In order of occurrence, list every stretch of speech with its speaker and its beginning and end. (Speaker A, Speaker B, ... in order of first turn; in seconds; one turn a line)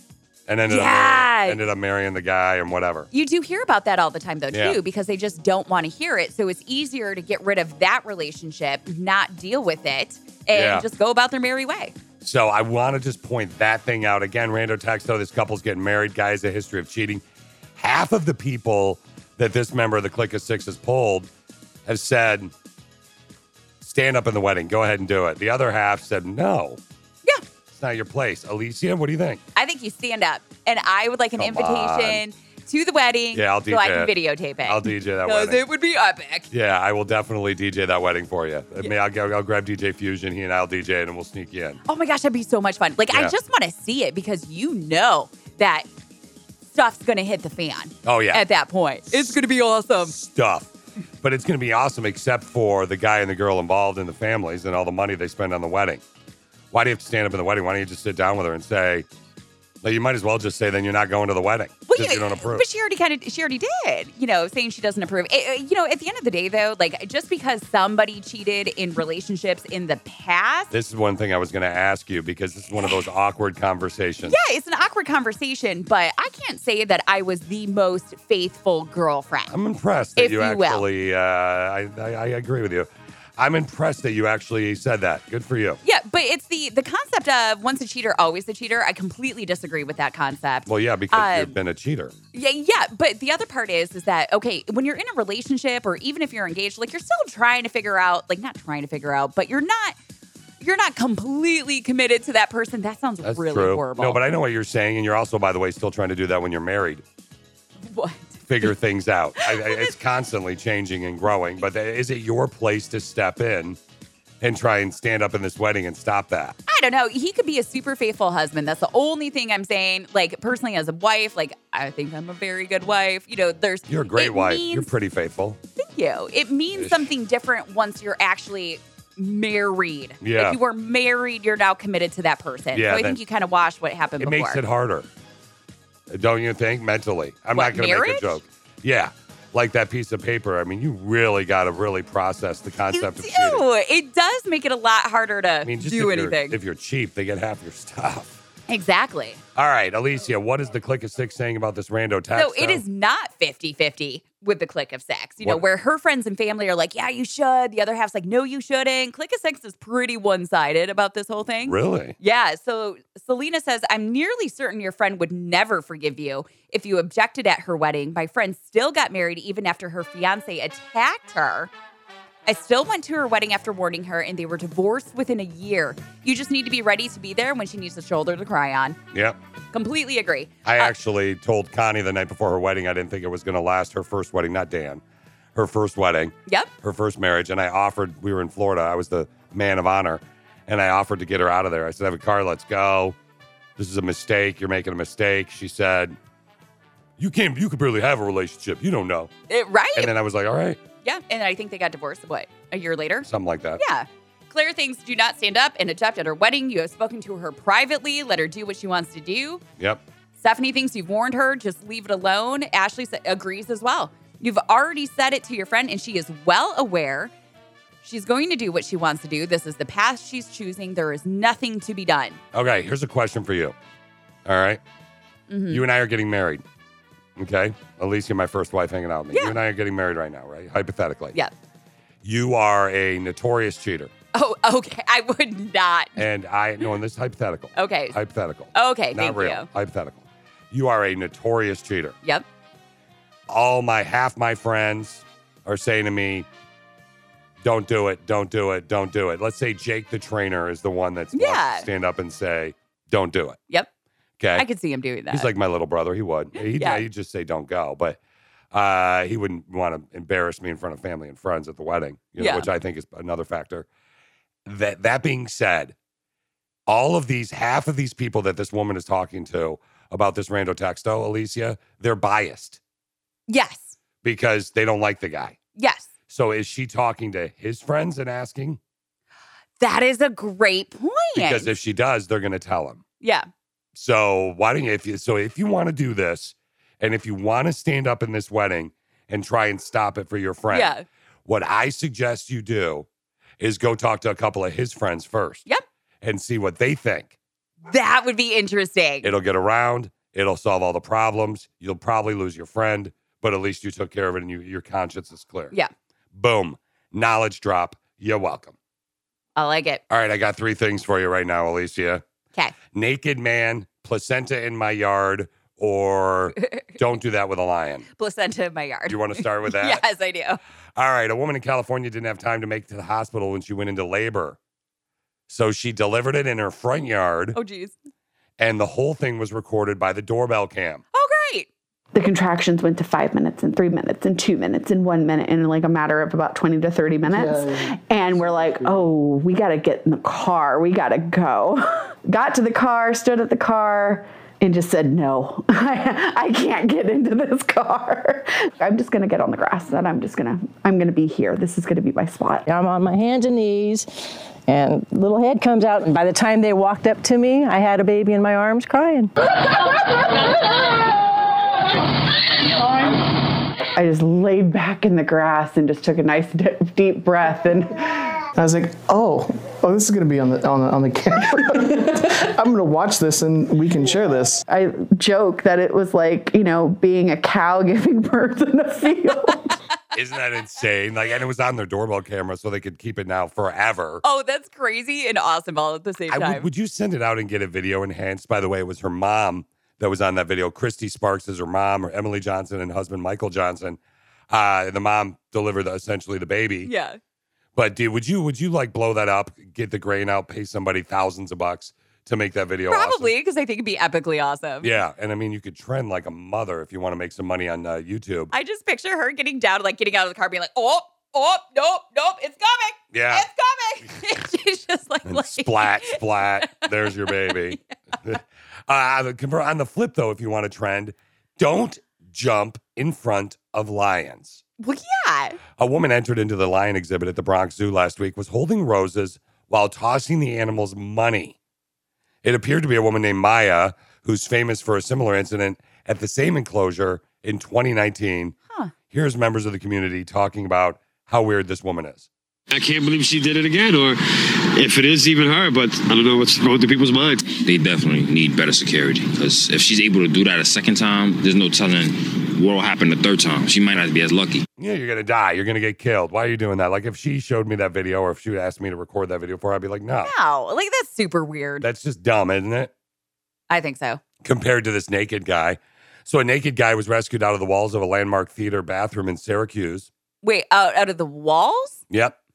Speaker A: 0.5-3.1
Speaker B: 0.7-1.6
Speaker B: 3.1-11.9
Speaker A: 4.5-4.8
Speaker A: 10.5-10.9
Speaker A: 12.2-17.2
Speaker A: 17.8-21.3
Speaker A: 21.9-22.5
Speaker A: 23.8-26.8
Speaker A: 27.7-29.4
Speaker B: 29.6-36.5
Speaker A: 31.4-32.2
Speaker A: 33.3-34.1
Speaker A: 34.6-35.6
Speaker A: 36.5-41.8
Speaker B: 41.9-45.9
Speaker A: 43.1-43.4
Speaker B: 46.7-50.1
Speaker A: 48.0-48.4
Speaker A: 50.0-50.7
Speaker A: 51.2-56.0
Speaker A: 56.7-59.1
Speaker A: 59.8-62.6
Speaker B: 61.9-70.7
Speaker A: 70.7-74.4
Speaker B: 74.3-79.5
Speaker A: 79.5-85.8
Speaker B: 80.2-80.9
Speaker B: 85.8-91.5
Speaker A: 90.7-92.1
Speaker B: 92.3-100.0
Speaker B: 100.6-104.2
Speaker A: 103.2-107.0
Speaker B: 107.9-108.7
Speaker A: 108.5-113.8
Speaker B: 109.4-110.0
Speaker A: 114.4-116.6
Speaker B: 116.7-124.9
Speaker A: 123.9-125.6
Speaker B: 125.8-134.6
Speaker A: 126.8-127.1
Speaker A: 130.2-130.6
Speaker A: 132.7-133.2
Speaker A: 134.2-135.1
Speaker A: 136.1-143.6
Speaker B: 137.6-138.4
Speaker B: 142.9-146.6
Speaker A: 145.6-148.4
Speaker B: 148.7-149.4
Speaker A: 149.6-152.8
Speaker B: 152.4-171.7
Speaker A: 161.7-162.2
Speaker B: 172.5-179.0
Speaker A: 179.1-179.4
Speaker B: 179.7-180.9
Speaker A: 180.7-185.0
Speaker A: 185.6-193.2
Speaker A: 193.8-196.2
Speaker A: 197.2-199.3
Speaker B: 199.5-200.1
Speaker A: 200.0-200.8
Speaker B: 201.0-203.3
Speaker A: 203.2-203.8
Speaker B: 203.8-209.6
Speaker B: 210.4-217.3
Speaker B: 218.0-222.4
Speaker A: 222.5-223.8
Speaker A: 224.5-224.8
Speaker B: 225.5-225.8
Speaker A: 225.7-226.6
Speaker A: 227.4-231.4
Speaker A: 232.2-234.1
Speaker B: 234.3-236.2
Speaker A: 236.2-242.2
Speaker B: 237.8-238.2
Speaker B: 238.8-239.7
Speaker A: 243.5-246.5
Speaker A: 247.6-253.6
Speaker B: 251.3-251.9
Speaker A: 254.4-254.7
Speaker B: 254.6-255.5
Speaker A: 255.3-258.2
Speaker B: 256.6-257.0
Speaker A: 258.7-263.9
Speaker B: 262.4-262.7
Speaker A: 264.7-265.9
Speaker A: 266.9-272.8
Speaker B: 273.5-273.9
Speaker A: 274.2-275.6
Speaker B: 275.8-276.1
Speaker A: 276.3-278.8
Speaker B: 279.8-281.7
Speaker A: 281.4-283.0
Speaker B: 283.2-283.5
Speaker A: 283.9-290.9
Speaker B: 290.7-291.0
Speaker A: 291.5-293.1
Speaker A: 293.6-295.6
Speaker A: 296.2-297.3
Speaker B: 297.9-299.3
Speaker A: 299.2-305.7
Speaker A: 306.3-308.7
Speaker B: 309.6-310.0
Speaker A: 310.1-312.2
Speaker A: 312.9-318.1
Speaker B: 318.2-320.6
Speaker A: 319.1-320.0
Speaker A: 321.0-324.6
Speaker A: 325.5-327.6
Speaker B: 327.6-327.9
Speaker A: 328.6-331.0
Speaker B: 331.1-331.7
Speaker C: 332.1-352.7
Speaker D: 352.7-354.1
Speaker D: 354.7-359.3
Speaker C: 364.0-368.4
Speaker E: 368.6-374.6
Speaker C: 374.6-379.7
Speaker A: 380.1-384.2
Speaker B: 384.2-386.7
Speaker A: 386.3-394.0
Speaker A: 394.5-396.9
Speaker B: 396.9-397.2
Speaker A: 397.8-403.3
Speaker B: 402.9-404.9
Speaker A: 404.8-408.5
Speaker B: 408.5-417.8
Speaker A: 413.1-413.5
Speaker A: 415.3-424.6
Speaker B: 424.8-425.6
Speaker A: 425.8-431.6
Speaker A: 432.4-438.6
Speaker A: 439.1-442.3
Speaker F: 442.7-447.5
Speaker G: 447.6-454.6
Speaker A: 454.8-460.3
Speaker B: 460.2-461.9
Speaker A: 461.8-462.9
Speaker B: 463.7-464.2
Speaker A: 464.4-470.1
Speaker B: 470.4-472.0
Speaker A: 472.1-472.4